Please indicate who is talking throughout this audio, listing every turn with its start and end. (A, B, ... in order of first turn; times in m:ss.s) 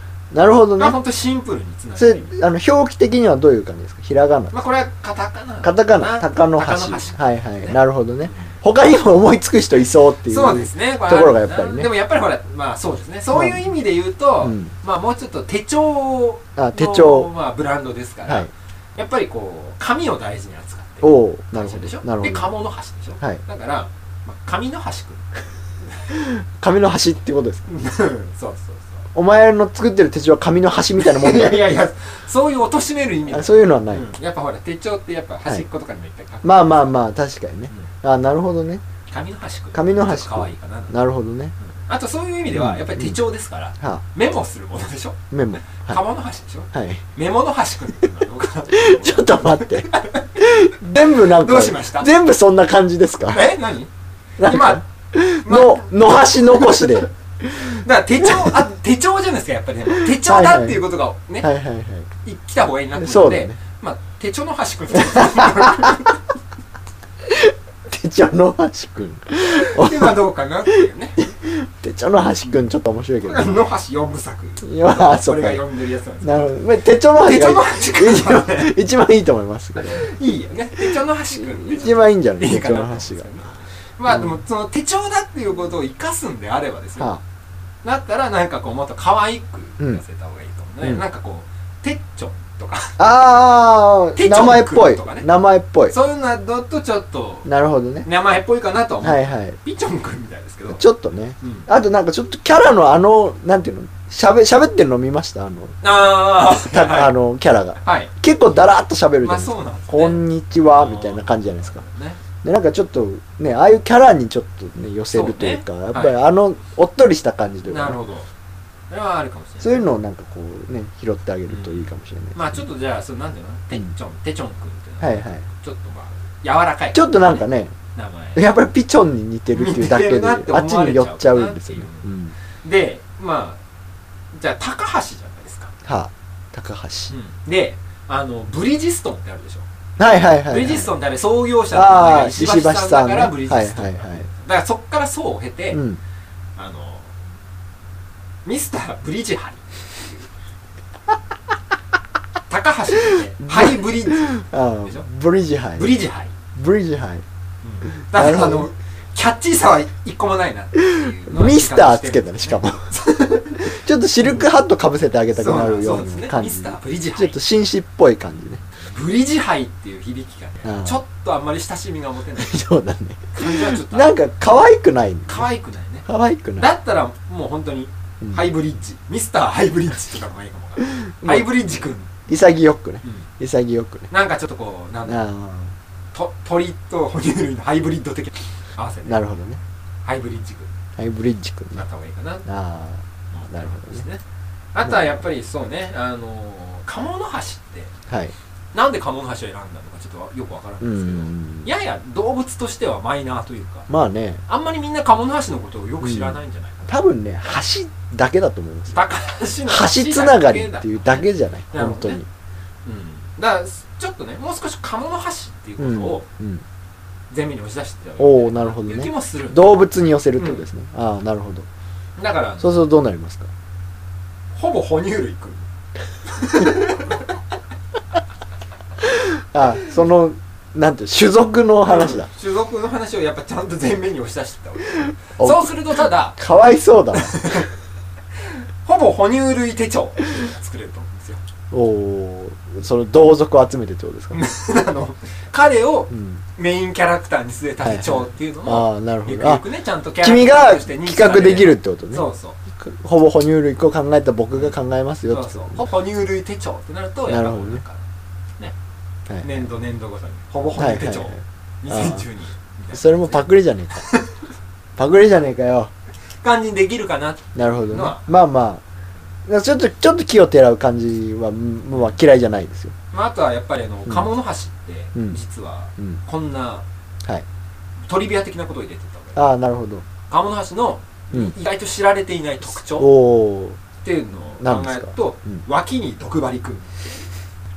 0:00.3-0:01.0 A
0:00.8-0:02.3 B
0:02.0-0:04.6 A
0:04.5-0:07.8 B
0:05.6-0:11.9 A
0:10.3-0:25.3 B
0:13.3-0:13.7 A
0:14.4-0:14.7 A
0:16.6-0:17.3 A
0:21.0-0:22.5 A
0:26.1-0:27.7 A
0:27.7-0:29.0 B
0:29.1-0:31.6 A
0:31.0-0:36.9 B
0:33.3-0:34.1 A
0:36.4-0:38.8 A
0:39.1-0:41.0 B
0:39.7-0:41.5 A
0:41.6-0:52.1 B
0:42.5-0:43.2 A
0:45.3-0:46.0 A
0:46.7-0:47.0 A
0:48.7-0:53.6 A
0:53.2-0:53.9 B
0:54.4-0:57.8 A
0:54.4-0:54.8 B
0:55.4-1:01.5 B
1:00.0-1:00.8 A
1:01.4-1:02.1 A
1:02.2-1:06.2 B
1:03.0-1:03.6 A
1:05.1-1:05.9 A
1:07.3-1:13.6 A
1:09.4-1:11.2 B
1:13.2-1:16.6 B
1:14.6-1:15.6 A
1:16.2-1:20.1 A
1:17.2-1:18.7 B
1:19.8-1:27.2 B
1:20.8-1:23.3 A
1:24.1-1:24.4 A
1:27.8-1:33.1 B
1:33.0-1:36.0 A
1:34.2-1:35.3 B
1:35.9-1:37.5 B
1:37.4-1:38.1 A
1:38.0-1:40.8 B
1:39.0-1:39.6 A
1:40.7-1:45.8 A
1:41.4-1:41.7 B
1:45.8-1:47.1 B
1:46.5-1:51.8 A
1:47.8-1:48.1 B
1:49.2-1:52.2 B
1:52.4-1:58.0 A
1:55.1-1:56.2 B
1:57.6-1:58.3 B
1:58.9-1:59.9 B
1:59.6-2:02.6 A
2:01.5-2:07.4 B
2:05.0-2:05.4 A
2:06.9-2:07.7 A
2:08.0-2:08.4 B
2:08.4-2:12.3 A
2:09.5-2:12.1 B
2:12.6-2:13.6 B
2:14.3-2:15.7 B
2:15.8-2:17.1 A
2:17.1-2:25.8 B
2:20.0-2:20.9 A
2:21.7-2:24.3 A
2:25.7-2:26.0 A
2:26.6-2:27.1 B
2:28.4-2:30.3 B
2:32.5-2:35.0 B
2:33.4-2:36.0 A
2:35.8-2:36.3 B
2:36.6-2:37.2 A
2:37.6-2:43.7 B
2:37.9-2:38.7 A
2:40.8-2:42.9 A
2:43.6-2:48.6 A
2:45.3-2:47.4 B
2:48.8-2:52.6 B
2:50.6-2:51.0 A
2:52.4-2:55.5 A
2:53.3-2:54.2 B
2:55.3-2:56.1 B
2:56.1-2:56.7 A
2:56.6-3:02.2 B
3:00.9-3:01.7 A
3:02.3-3:04.1 A
3:04.1-3:05.2 B
3:05.1-3:05.8 A
3:06.1-3:09.2 B
3:09.1-3:09.6 A
3:10.0-3:10.7 B
3:11.0-3:11.8 A
3:11.7-3:12.5 B
3:12.4-3:14.0 A
3:13.3-3:14.2 B
3:14.7-3:17.9 B
3:14.8-3:15.2 A
3:18.7-3:23.9 B
3:20.8-3:21.7 A
3:23.9-3:24.4 A
3:24.5-3:27.0 B
3:26.0-3:29.0 A
3:28.9-3:32.2 B
3:29.7-3:32.3 A
3:32.8-3:36.2 B
3:35.8-3:36.6 A
3:37.3-3:39.8 B
3:38.2-3:41.7 A
3:40.4-3:40.7 B
3:42.2-3:42.8 B
3:42.6-3:43.5 A
3:44.5-3:45.7 B
3:46.3-3:47.3 B
3:49.1-3:52.3 A
3:51.9-3:56.4 B
3:55.4-3:57.7 A
3:57.1-3:57.7 B
3:58.8-4:01.4 B
4:01.7-4:04.4 A
4:04.3-4:12.6 B
4:06.1-4:06.4 A
4:07.8-4:09.6 A
4:10.2-4:15.8 A
4:15.3-4:18.0 B
4:17.3-4:17.8 A
4:19.3-4:19.6 A
4:19.4-4:24.3 B
4:20.7-4:22.2 A
4:22.9-4:24.1 A
4:25.0-4:25.9 A
4:26.4-4:28.4 B
4:27.6-4:28.8 A
4:29.5-4:32.9 A
4:33.1-4:36.8 B
4:38.0-4:39.5 B
4:39.4-4:40.0 A
4:40.3-4:43.1 B
4:42.8-4:43.8 A
4:44.0-4:47.3 B
4:44.6-4:45.6 A